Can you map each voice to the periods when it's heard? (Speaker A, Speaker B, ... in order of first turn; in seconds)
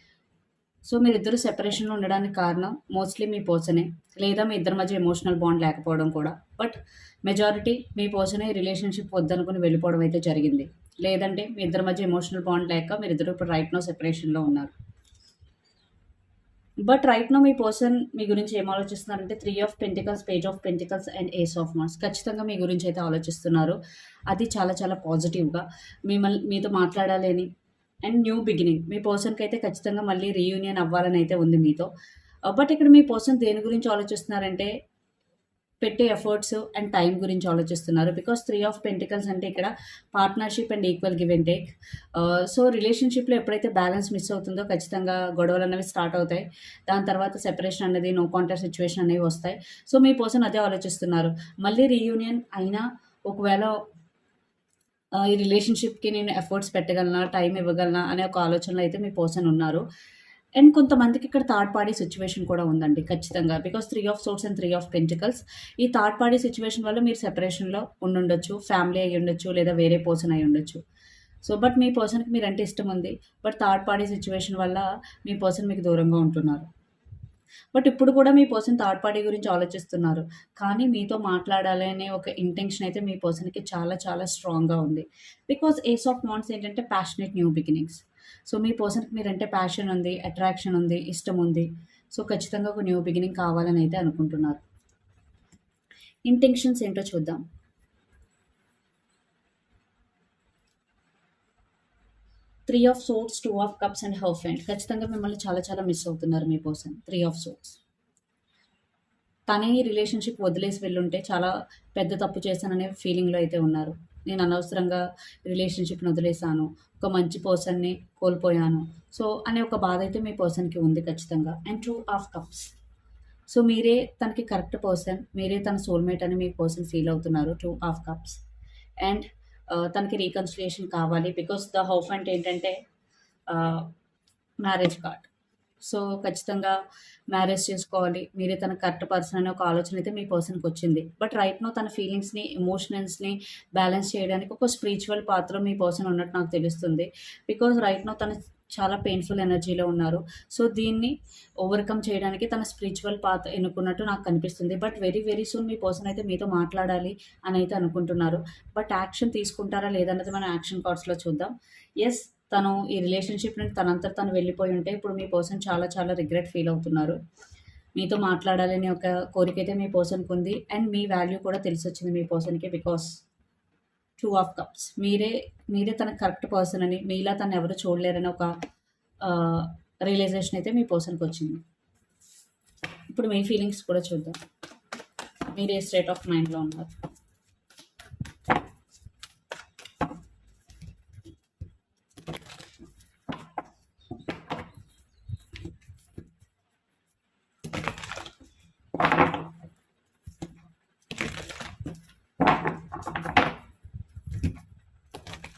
Speaker A: 0.8-14.7, 16.8-27.5, 28.0-31.9, 32.5-34.7, 35.8-53.8, 55.1-59.8, 60.5-70.8, 71.4-76.7, 77.7-94.6, 96.3-97.4, 102.7-107.8, 109.5-122.7, 123.5-128.4, 129.0-132.8, 133.5-133.9, 134.6-135.3, 135.8-136.8, 137.3-167.2, 167.9-173.2, 174.2-178.5, 179.2-181.6, 183.1-184.4, 185.5-186.9